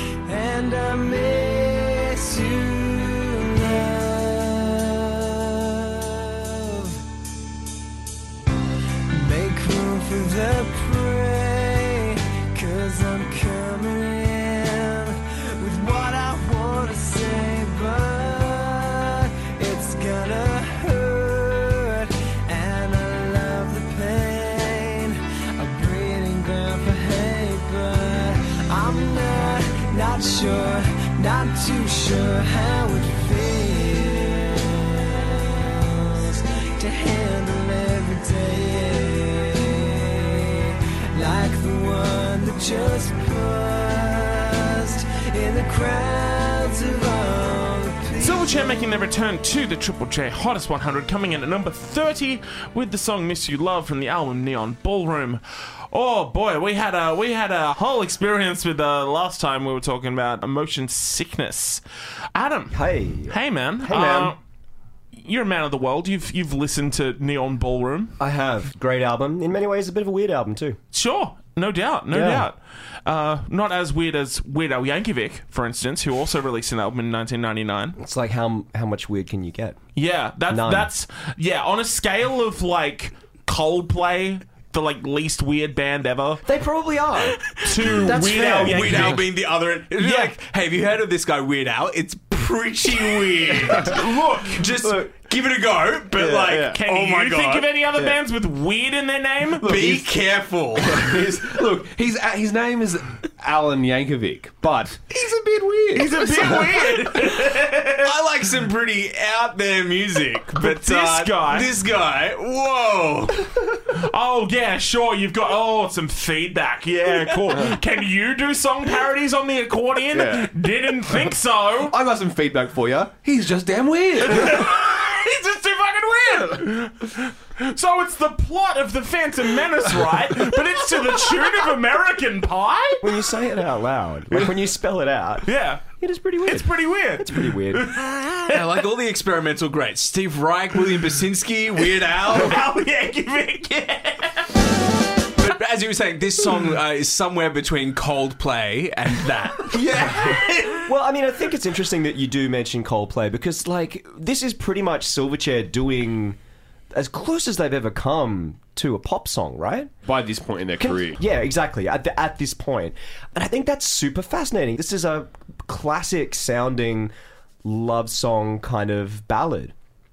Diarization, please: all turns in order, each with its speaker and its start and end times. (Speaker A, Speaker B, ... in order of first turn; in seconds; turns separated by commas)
Speaker A: 0.2-7.0, Speaker A: 9.1-48.7, Speaker B: 48.2-61.8, Speaker B: 62.4-64.4, Speaker C: 62.7-64.4, Speaker B: 65.1-68.2, Speaker C: 68.2-70.8, Speaker B: 70.9-78.0, Speaker C: 72.1-72.5, Speaker C: 78.0-79.8, Speaker B: 80.0-86.4, Speaker C: 80.5-80.9, Speaker C: 86.5-89.1, Speaker D: 87.6-97.8, Speaker B: 87.6-89.2, Speaker C: 90.0-90.3, Speaker B: 93.7-94.6, Speaker C: 94.8-95.1, Speaker E: 96.3-96.7, Speaker B: 96.6-99.8, Speaker D: 99.6-101.3, Speaker E: 99.6-100.1, Speaker E: 100.8-106.7, Speaker B: 105.9-108.2, Speaker D: 108.0-113.6, Speaker B: 110.5-111.8, Speaker B: 113.9-121.9, Speaker E: 120.1-124.7, Speaker B: 124.3-133.3, Speaker C: 133.0-138.0, Speaker B: 135.5-135.9, Speaker B: 136.4-138.7, Speaker D: 138.5-142.6, Speaker B: 142.2-144.5, Speaker D: 145.4-149.9, Speaker B: 149.7-150.8, Speaker C: 149.9-156.4, Speaker C: 156.9-159.9, Speaker E: 160.1-161.2, Speaker C: 160.8-167.1, Speaker C: 167.6-169.7